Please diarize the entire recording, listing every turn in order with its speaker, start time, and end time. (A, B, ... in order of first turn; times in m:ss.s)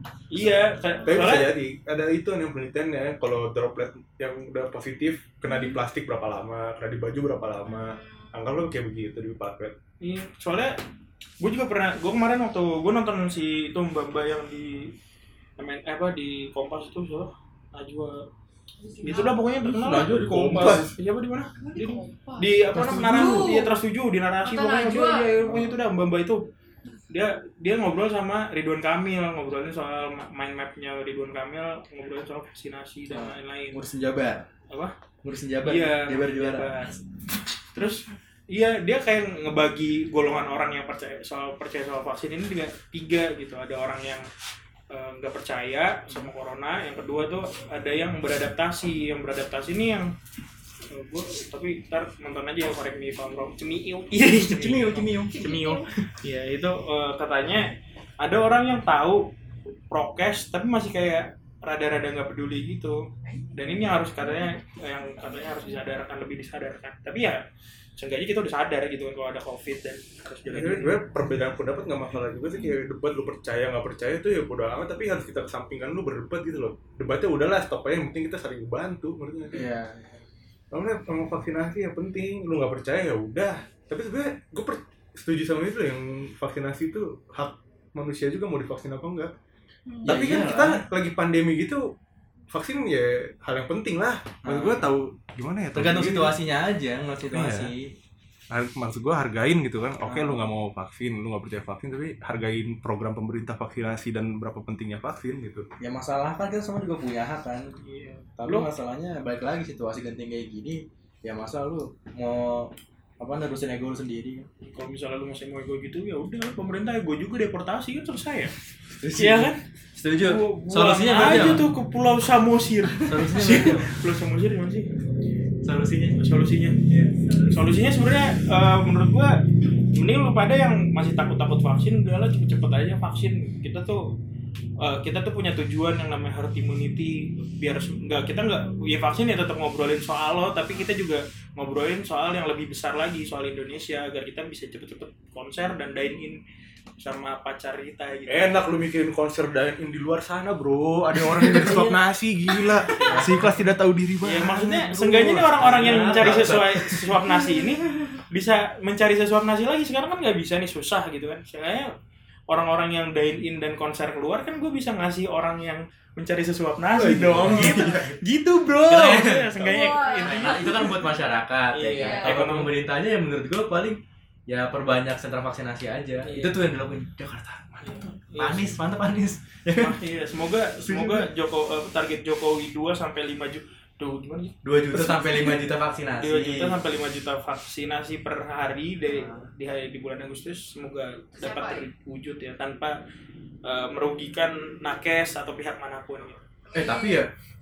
0:00.3-0:01.5 A
0:01.0-0:09.8 B
0:05.5-0:05.8 C
0:07.7-0:08.3 C
0:10.0-0:10.8 A
0:11.4-0:14.9 A
0:15.6-0:18.3 A
0:18.8-0:19.4 C
0:19.0-0:26.5 A
0:19.6-0:20.8 D
0:19.9-0:21.0 B
0:21.6-0:23.8 C
0:22.7-0:23.5 D
0:24.4-0:25.3 C
0:27.1-0:33.8 A
0:33.1-0:34.5 D
0:34.7-0:35.0 A
0:35.2-0:36.8 D
0:35.6-0:37.0 A
0:37.7-0:44.3 A
0:44.9-0:50.1 A
0:50.9-0:59.2 A
0:54.3-0:55.5 D
0:55.3-0:55.9 C
0:59.9-1:07.4 A
1:05.3-1:05.6 C
1:08.0-1:11.0 A
1:10.5-1:19.7 B
1:19.5-1:20.2 D
1:20.7-1:29.3 B
1:29.9-1:30.2 C
1:30.0-1:30.8 D
1:30.0-1:31.9 B
1:32.5-1:36.4 B
1:34.4-1:34.9 D
1:35.8-1:37.9 D
1:37.3-1:37.7 B
1:38.5-1:45.7 B
1:40.0-1:40.4 D
1:45.8-1:47.7 D
1:47.8-1:48.7 A
1:48.4-1:54.5 D
1:54.6-1:58.5 A
1:59.0-2:01.7 D
1:59.1-1:59.6 A
2:00.2-2:04.9 A
2:03.0-2:03.9 D
2:05.6-2:06.2 D
2:06.2-2:06.8 A
2:06.9-2:07.2 D
2:07.2-2:07.6 C
2:07.5-2:14.1 A
2:14.8-2:26.4 A
2:27.0-2:28.6 A
2:28.3-2:36.5 B
2:33.0-2:33.4 A
2:33.0-2:33.5 D
2:34.2-2:41.9 A
2:35.4-2:37.1 D
2:42.5-2:51.0 A
2:47.0-2:48.0 B
2:47.0-2:48.2 D
2:48.9-3:00.0 D
2:49.6-2:51.0 C
2:51.7-2:52.7 A
2:51.9-2:52.4 C
2:56.2-2:56.5 A
2:57.8-2:58.8 A
2:59.7-3:05.6 A
3:00.8-3:01.3 D
3:04.6-3:06.8 D
3:06.2-3:13.0 A
3:09.1-3:09.4 D
3:11.4-3:11.9 C
3:13.6-3:16.4 A
3:16.7-3:17.2 C
3:16.7-3:17.3 D